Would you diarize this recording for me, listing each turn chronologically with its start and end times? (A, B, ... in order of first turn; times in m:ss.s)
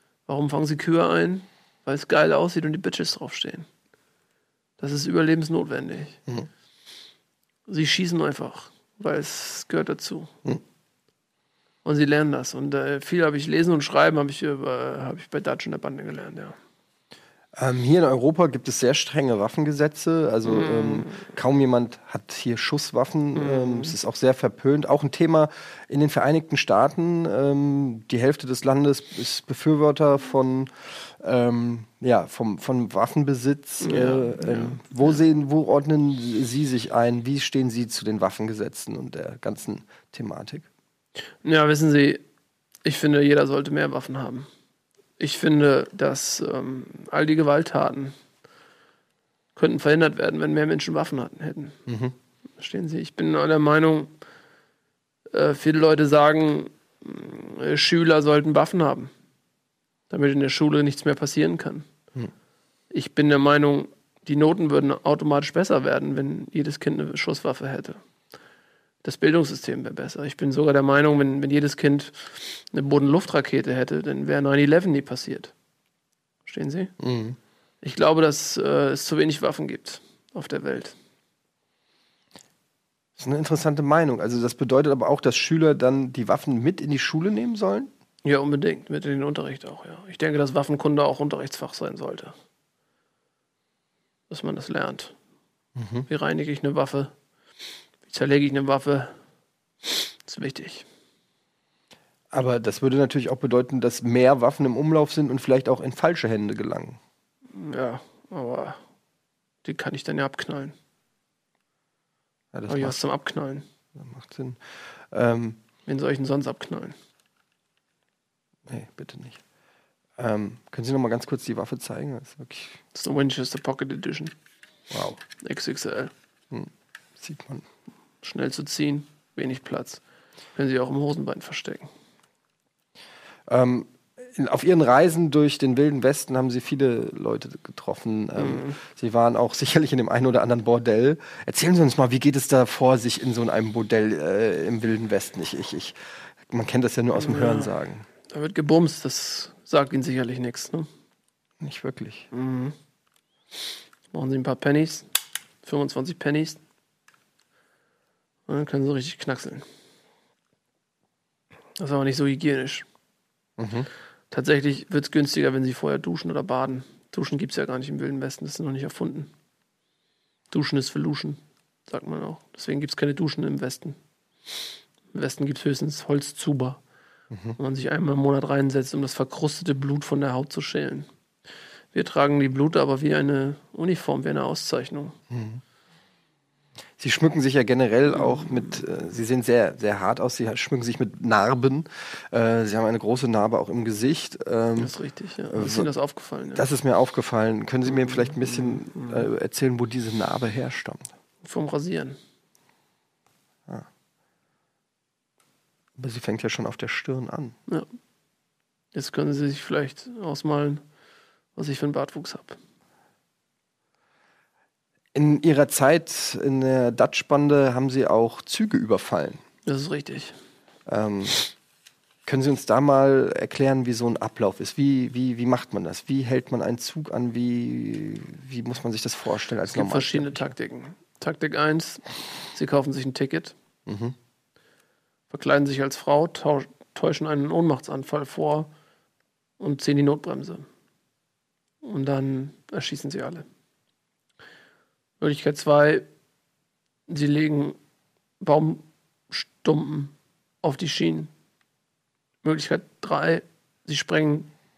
0:00.3-0:03.7 A
0:04.8-0:06.2 A
0:07.7-0:10.3 A
0:11.8-0:16.6 A
0:17.5-0:40.6 B
0:20.4-0:21.3 A
0:23.3-0:23.9 A
0:33.8-0:34.9 A
0:41.4-0:42.2 A
0:42.8-0:44.5 A
0:45.2-0:48.1 A
0:49.6-0:51.8 A
0:51.9-0:52.1 B
0:52.6-0:54.1 A
0:55.3-0:59.1 A
1:00.1-1:01.9 A
1:02.9-1:08.0 A
1:09.0-1:15.5 A
1:16.4-1:16.9 A
1:17.0-1:17.4 B
1:17.8-1:21.0 A
1:23.2-1:27.9 B
1:28.2-1:32.3 A
1:34.3-1:35.2 A
1:35.8-1:36.1 B
1:36.1-1:37.1 A
1:38.0-1:39.1 A
1:39.8-1:40.9 A
1:42.3-1:47.0 B
1:47.5-1:48.8 A
1:49.6-1:50.7 A
1:52.5-1:53.0 B
1:52.7-1:53.6 A
1:53.9-1:55.6 B
1:55.8-1:56.9 A
1:58.7-1:59.4 B
2:00.2-2:02.8 B
2:02.9-2:04.3 A
2:04.9-2:05.2 B
2:05.4-2:06.1 A
2:06.5-2:07.6 B
2:08.2-2:10.0 A
2:10.5-2:11.9 A
2:13.5-2:28.0 B
2:18.4-2:18.8 A
2:27.1-2:27.7 A
2:28.3-2:30.9 A
2:31.6-2:32.3 B
2:32.3-2:32.7 A
2:34.1-2:35.1 A
2:35.6-2:36.6 A
2:38.5-2:39.6 A
2:41.8-2:42.9 A
2:43.6-2:43.9 B
2:44.3-2:49.3 A
2:50.5-2:54.0 A
2:55.1-2:56.8 A
2:57.3-2:57.6 B
2:57.6-3:01.1 A
3:01.9-3:05.2 A
3:05.3-3:05.6 B
3:07.0-3:14.9 B
3:14.8-3:16.6 A
3:15.5-3:15.9 B
3:16.5-3:21.1 B
3:18.0-3:19.2 A
3:21.4-3:22.2 A
3:26.0-3:27.6 B
3:28.9-3:30.8 A
3:31.6-3:32.6 A
3:35.1-3:39.4 B
3:39.6-3:40.4 A
3:40.9-3:41.5 B
3:42.2-3:50.5 B
3:49.7-3:53.5 A
3:53.9-3:54.2 B
3:55.3-3:58.7 A
3:59.6-4:00.7 A
4:01.8-4:03.4 A
4:05.2-4:06.1 A
4:07.1-4:07.8 A
4:08.4-4:11.3 A
4:12.4-4:14.5 A